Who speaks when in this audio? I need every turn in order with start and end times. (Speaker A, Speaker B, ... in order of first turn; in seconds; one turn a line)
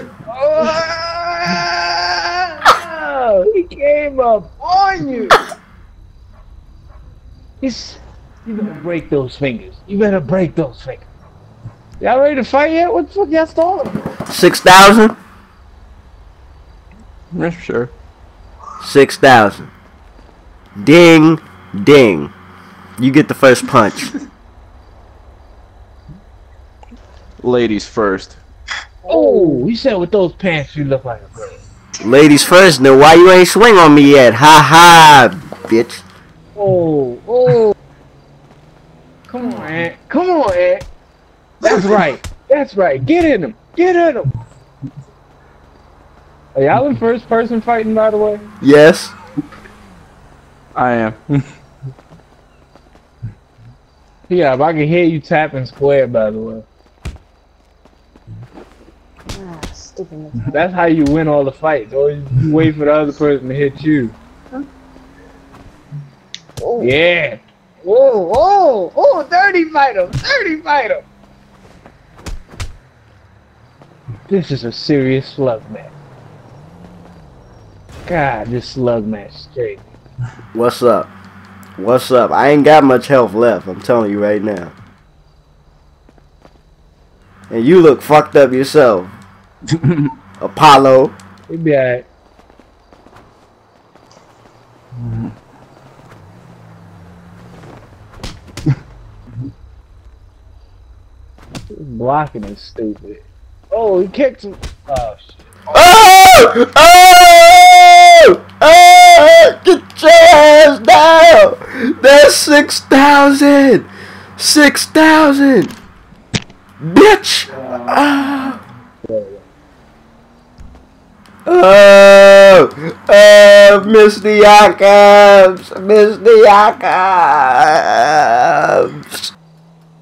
Speaker A: 0.3-5.4
Speaker A: 7.6-11.1
Speaker A: 12.0-14.1
Speaker B: 14.3-15.2
Speaker C: 17.3-17.9
Speaker B: 18.8-19.7
Speaker B: 20.8-22.3
Speaker B: 23.0-24.1
Speaker C: 27.4-28.4
Speaker D: 29.0-29.6
Speaker A: 29.1-31.6
Speaker B: 32.0-36.0
Speaker A: 36.5-37.7
Speaker A: 39.3-40.9
Speaker A: 41.6-44.3
Speaker A: 46.5-48.5
Speaker B: 48.6-49.1
Speaker C: 50.7-51.4
Speaker A: 54.3-56.6
Speaker D: 59.3-60.6
Speaker A: 60.5-64.1
Speaker D: 66.6-66.9
Speaker A: 66.8-71.0
Speaker A: 74.3-75.9
Speaker A: 78.0-79.8
Speaker B: 80.5-81.1
Speaker B: 81.8-84.7
Speaker B: 87.5-89.1
Speaker C: 89.7-90.1
Speaker B: 90.4-91.1
Speaker A: 91.5-92.1
Speaker C: 95.0-95.3
Speaker A: 101.7-105.5
Speaker B: 105.7-115.7
Speaker B: 116.8-118.6
Speaker A: 119.0-119.4
Speaker B: 121.5-129.3